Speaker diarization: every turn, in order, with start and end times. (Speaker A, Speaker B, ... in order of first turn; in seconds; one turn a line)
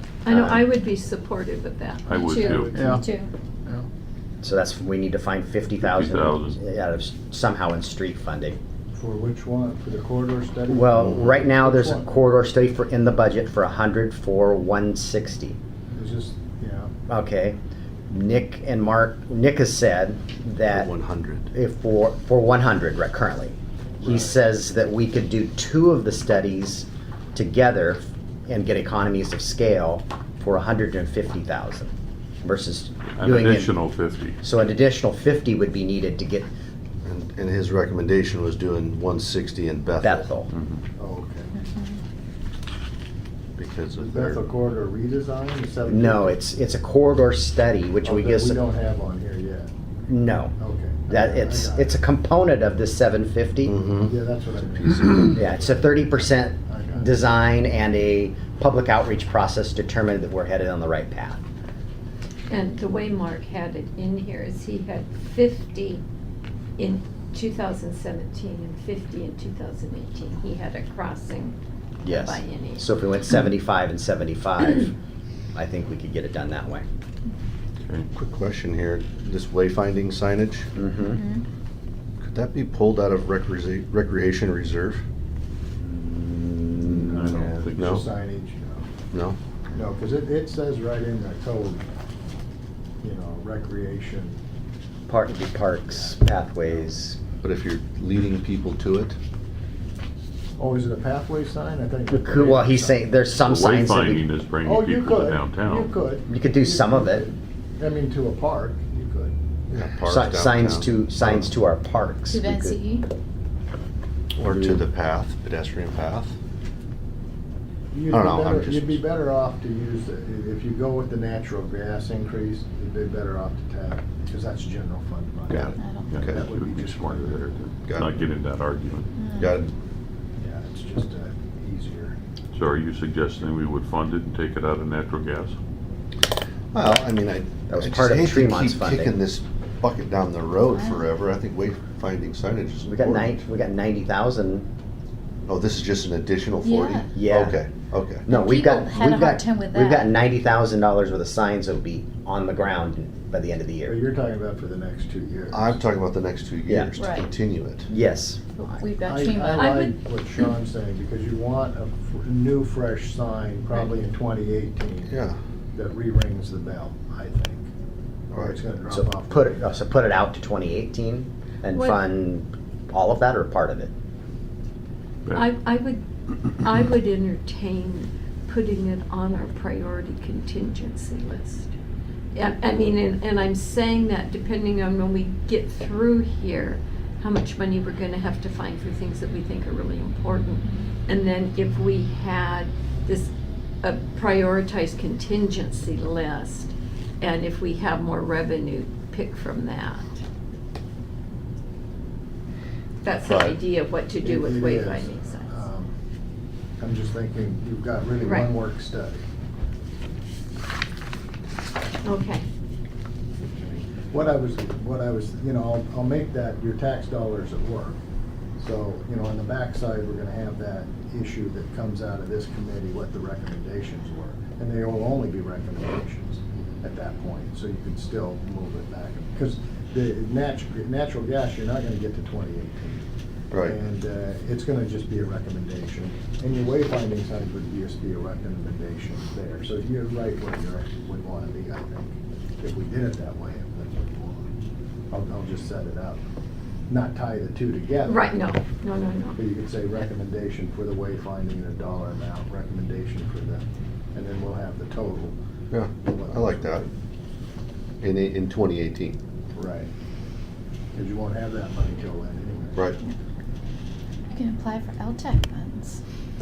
Speaker A: 0.2-2.8
Speaker B: 0.3-0.6
Speaker C: 2.1-2.8
Speaker D: 2.1-3.3
Speaker E: 2.4-3.0
Speaker B: 4.4-8.6
Speaker C: 5.8-6.6
Speaker E: 8.9-12.1
Speaker B: 10.7-15.6
Speaker E: 15.9-16.9
Speaker B: 17.1-17.6
Speaker B: 18.1-20.9
Speaker F: 20.7-21.5
Speaker B: 21.5-31.9
Speaker E: 24.0-24.3
Speaker B: 32.4-33.7
Speaker C: 33.2-34.4
Speaker B: 34.4-36.5
Speaker F: 37.0-40.3
Speaker B: 40.0-40.5
Speaker C: 40.5-40.8
Speaker E: 41.0-41.6
Speaker F: 43.6-44.5
Speaker E: 44.0-46.4
Speaker B: 45.9-48.6
Speaker E: 48.0-49.7
Speaker B: 50.1-50.5
Speaker E: 50.6-52.0
Speaker B: 51.1-53.8
Speaker F: 53.7-54.1
Speaker E: 54.0-55.8
Speaker B: 55.3-61.4
Speaker E: 56.7-57.1
Speaker A: 62.5-66.0
Speaker A: 66.8-72.9
Speaker B: 72.0-74.9
Speaker B: 75.5-76.9
Speaker F: 78.2-80.7
Speaker B: 80.8-81.2
Speaker D: 81.2-81.4
Speaker F: 82.2-85.0
Speaker B: 85.8-87.6
Speaker C: 86.7-88.0
Speaker E: 87.3-88.9
Speaker F: 87.8-88.0
Speaker F: 89.1-89.4
Speaker E: 89.7-91.8
Speaker E: 93.0-94.4
Speaker B: 95.1-97.2
Speaker E: 95.9-96.8
Speaker F: 97.4-99.2
Speaker E: 100.6-103.0
Speaker B: 102.1-104.2
Speaker C: 103.4-105.9
Speaker E: 104.6-109.3
Speaker B: 106.3-107.3
Speaker F: 109.7-111.5
Speaker B: 110.1-112.8
Speaker D: 112.3-113.1
Speaker F: 114.3-116.3
Speaker B: 114.4-114.8
Speaker E: 117.9-127.5
Speaker F: 118.1-119.0
Speaker F: 125.5-126.5
Speaker D: 125.8-126.2
Speaker C: 126.1-129.2
Speaker F: 127.8-128.1
Speaker D: 129.2-129.6
Speaker F: 129.3-129.7
Speaker E: 130.4-132.2
Speaker C: 132.5-135.6
Speaker F: 136.7-143.4
Speaker B: 137.7-139.1
Speaker D: 140.7-141.1
Speaker B: 142.9-144.7
Speaker F: 145.4-148.3
Speaker D: 146.6-147.1
Speaker B: 147.1-147.6
Speaker B: 148.3-154.0
Speaker D: 148.3-150.1
Speaker E: 153.9-155.8
Speaker F: 155.5-157.9
Speaker B: 156.7-157.0
Speaker D: 157.0-157.3
Speaker B: 157.9-158.8
Speaker D: 158.6-159.9
Speaker E: 159.0-165.2
Speaker A: 159.6-159.9
Speaker F: 165.1-165.4
Speaker E: 165.8-167.7
Speaker E: 168.3-169.6
Speaker B: 168.9-173.9
Speaker A: 171.8-172.0
Speaker A: 175.3-181.7
Speaker A: 182.3-193.3
Speaker A: 193.8-200.1
Speaker A: 203.0-205.6
Speaker F: 203.2-203.6
Speaker E: 204.2-205.9
Speaker E: 206.8-209.2
Speaker A: 208.2-208.6
Speaker A: 212.0-212.4
Speaker E: 213.4-218.0
Speaker E: 218.6-233.0
Speaker F: 233.5-233.8
Speaker E: 233.7-244.4
Speaker E: 245.1-246.2
Speaker E: 246.9-248.4
Speaker A: 248.0-249.4
Speaker E: 249.4-255.3
Speaker F: 255.7-256.9
Speaker E: 256.0-256.9
Speaker F: 258.0-259.2
Speaker E: 259.5-259.9
Speaker E: 260.9-262.9
Speaker D: 264.3-266.0